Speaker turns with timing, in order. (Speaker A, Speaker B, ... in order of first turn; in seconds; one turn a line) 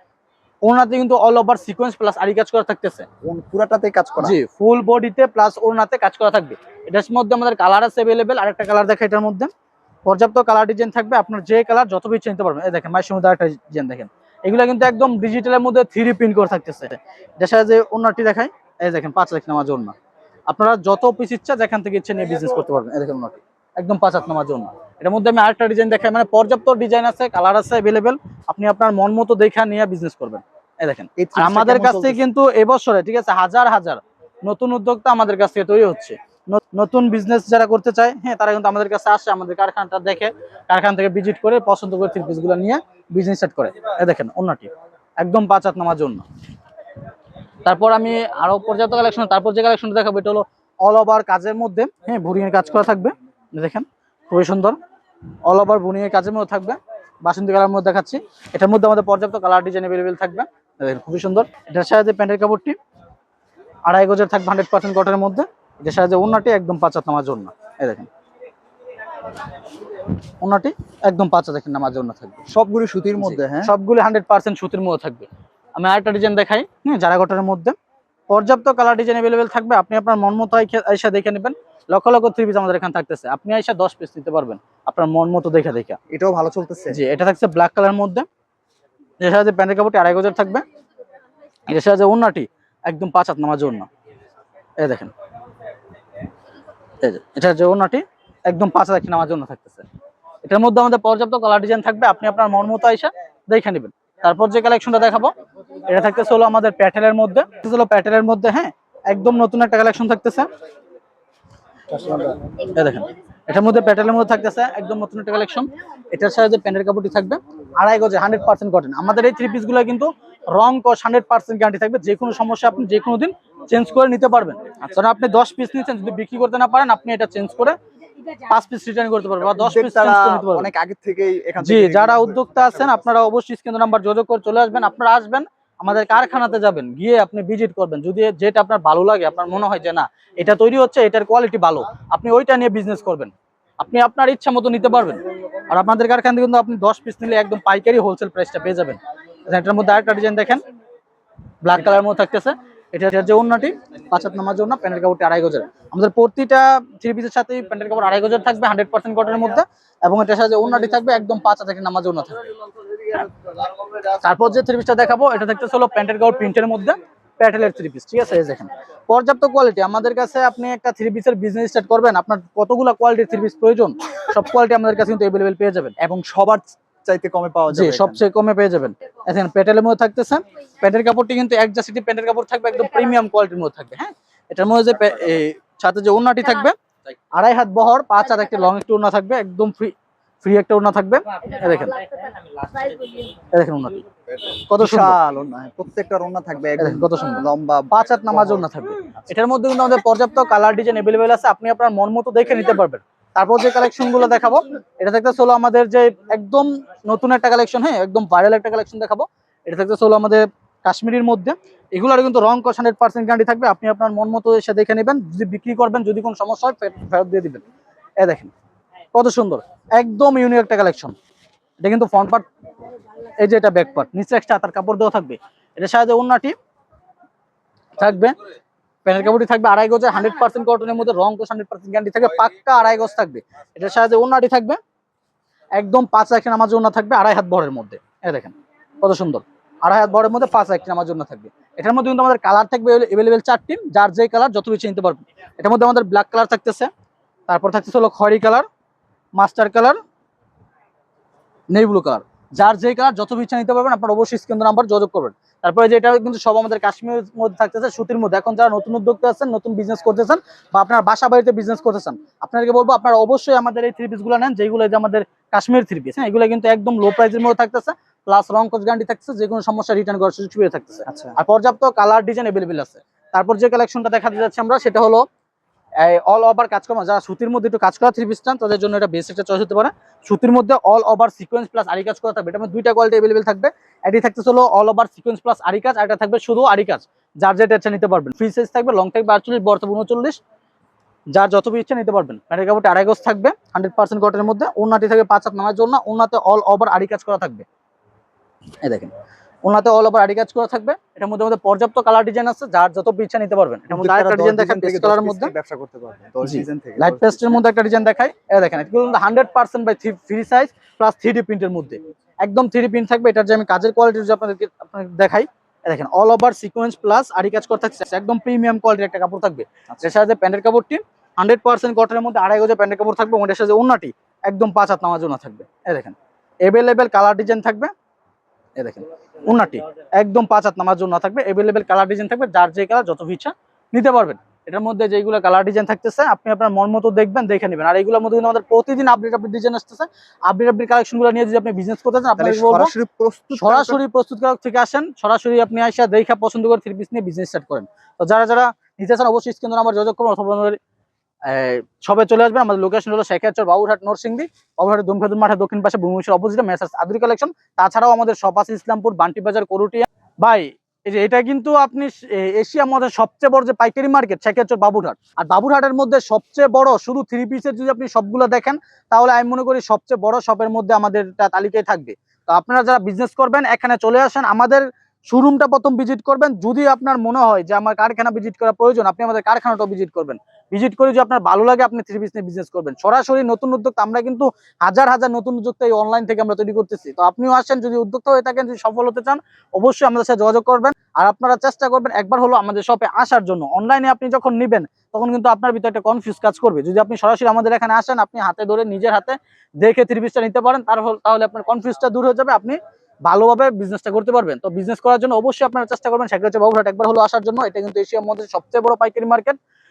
Speaker A: 0.7-3.1
Speaker B: 3.2-4.3
Speaker A: 4.2-9.5
Speaker A: 10.1-20.0
Speaker A: 20.5-46.2
Speaker B: 31.2-32.2
Speaker A: 47.6-54.8
Speaker A: 55.5-62.8
Speaker A: 63.9-68.1
Speaker A: 70.4-72.4
Speaker B: 72.5-73.7
Speaker A: 73.2-77.8
Speaker A: 78.3-86.0
Speaker B: 86.1-87.0
Speaker A: 86.9-88.3
Speaker A: 89.2-90.7
Speaker A: 91.7-93.9
Speaker A: 94.8-95.1
Speaker A: 97.0-99.9
Speaker A: 100.5-105.3
Speaker A: 105.9-110.5
Speaker A: 111.9-127.8
Speaker A: 128.4-130.7
Speaker B: 129.6-132.9
Speaker A: 131.6-150.6
Speaker A: 151.6-162.5
Speaker A: 164.0-175.9
Speaker B: 176.0-178.2
Speaker A: 177.7-186.8
Speaker A: 187.3-192.0
Speaker A: 193.5-194.1
Speaker A: 194.7-195.2
Speaker B: 194.8-199.3
Speaker A: 196.8-217.6
Speaker A: 218.2-218.5
Speaker A: 219.1-221.2
Speaker A: 221.8-222.5
Speaker A: 223.2-226.6
Speaker A: 228.0-228.3
Speaker A: 229.1-234.8
Speaker A: 235.8-246.9
Speaker A: 247.5-248.7
Speaker A: 249.4-250.0
Speaker A: 251.7-275.2
Speaker B: 271.1-271.3
Speaker A: 276.0-290.4
Speaker A: 291.3-297.7
Speaker A: 298.8-299.1
Speaker A: 299.6-305.5
Speaker B: 303.9-307.6
Speaker A: 306.4-327.9
Speaker A: 328.8-342.9
Speaker B: 342.4-344.0
Speaker A: 343.5-350.8
Speaker A: 351.4-409.6